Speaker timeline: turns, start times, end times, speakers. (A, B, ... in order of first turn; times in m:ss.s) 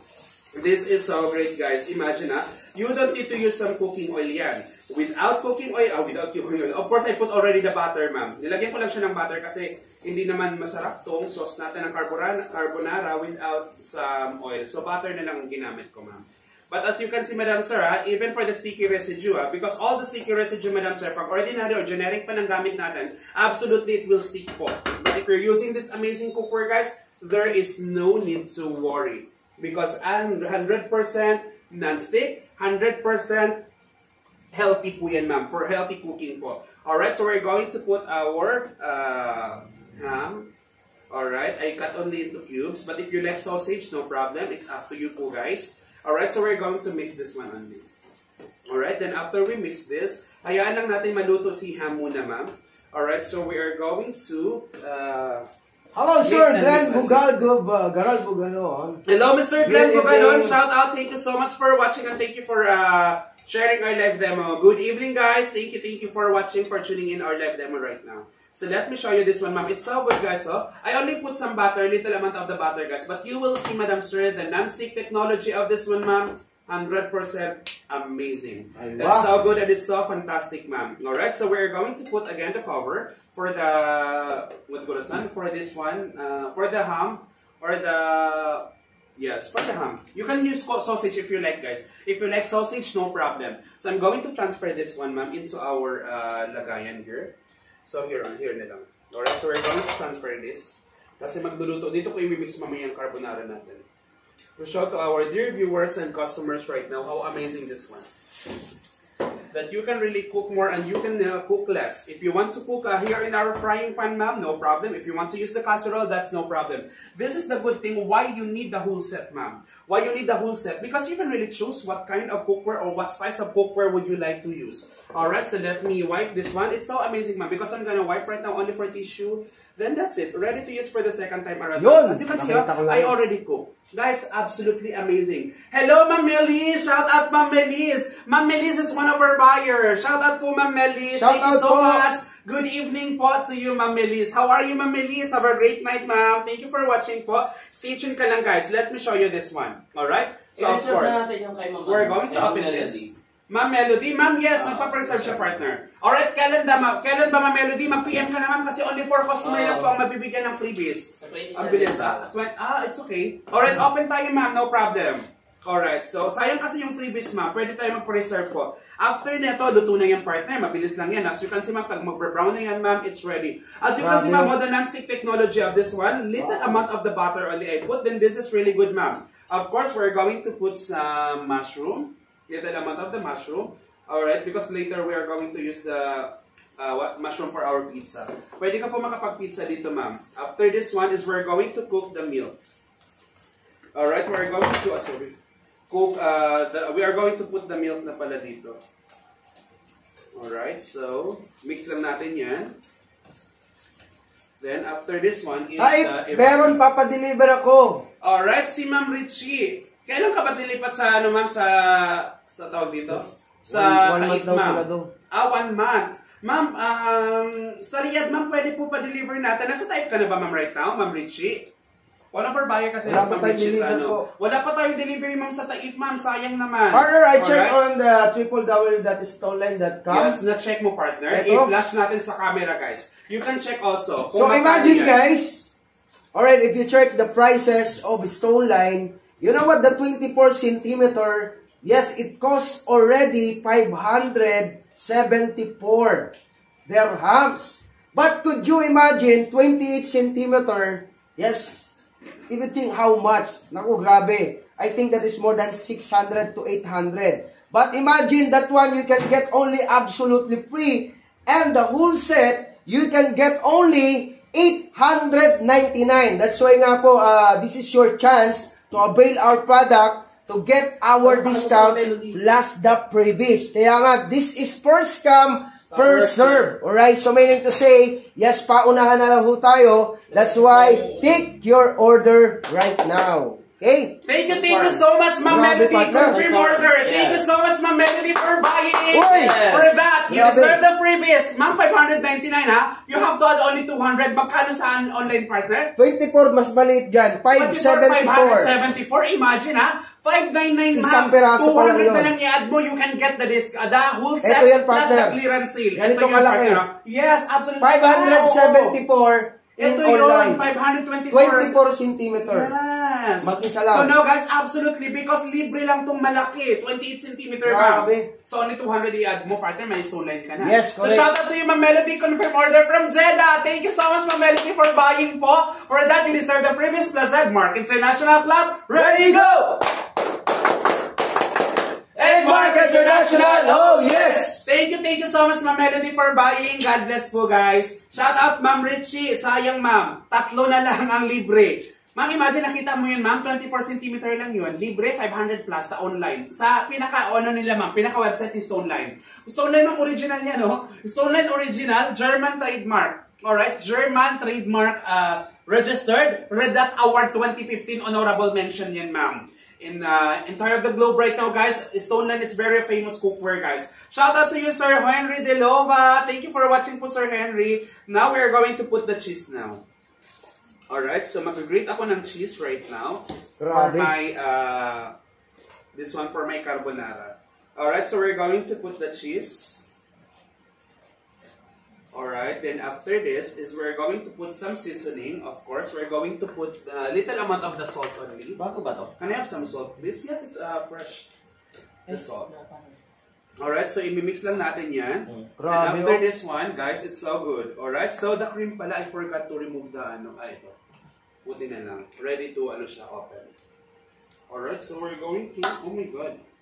0:00.5-0:33.6 A
0:34.5-0:40.5 A
0:41.1-0:47.9 A
0:48.7-0:55.4 A
0:55.9-0:59.0 B
0:56.2-0:57.2 A
0:59.1-1:37.3 A
0:59.6-1:00.5 B
1:18.8-1:19.4 B
1:37.8-1:43.8 A
1:44.6-1:48.1 A
1:49.5-2:31.2 A
2:11.8-2:13.1 B
2:21.1-2:22.0 B
2:30.6-2:33.1 C
2:31.8-3:12.6 A
2:34.6-2:35.4 C
2:39.4-2:40.0 C
2:41.2-2:42.3 C
2:54.0-2:54.5 B
2:56.4-2:56.8 B
3:13.9-3:15.3 A
3:15.9-3:18.8 A
3:20.3-3:22.8 A
3:24.6-3:26.8 A
3:25.8-3:28.1 B
3:28.2-3:41.7 A
3:33.1-3:35.1 B
3:42.3-3:47.8 A
3:43.0-3:44.3 B
3:46.9-3:50.4 B
3:50.1-3:55.2 A
3:51.3-3:51.7 B
3:54.3-3:55.7 B
3:56.3-4:06.3 B
4:06.8-4:11.9 B
4:12.5-4:44.2 B
4:31.2-4:32.4 C
4:35.9-4:36.7 C
4:40.3-4:41.4 C
4:44.3-4:55.9 A
4:44.5-4:45.0 C
4:45.4-4:46.4 B
4:46.3-4:47.4 C
4:49.1-4:49.6 B
4:49.2-4:50.0 C
4:50.3-4:50.8 B
4:56.0-4:58.7 B
4:57.5-5:09.0 A
5:00.9-5:02.3 B
5:04.4-5:05.4 B
5:05.9-5:06.8 B
5:07.8-5:10.6 B
5:09.8-5:11.8 A
5:11.3-5:12.7 B
5:12.4-5:29.6 A
5:13.4-5:14.1 B
5:17.6-5:18.3 B
5:20.6-5:21.3 B
5:28.9-5:29.8 B
5:32.1-6:09.8 A
5:32.2-5:34.6 B
6:10.9-6:15.1 A
6:13.6-6:14.1 B
6:15.9-6:19.9 A
6:22.1-6:28.6 A
6:28.6-6:29.1 C
6:29.2-6:31.3 A
6:32.1-6:33.0 C
6:32.1-6:32.5 A
6:33.6-6:40.7 A
6:35.6-6:36.2 B
6:41.4-6:43.5 A
6:44.5-6:46.4 A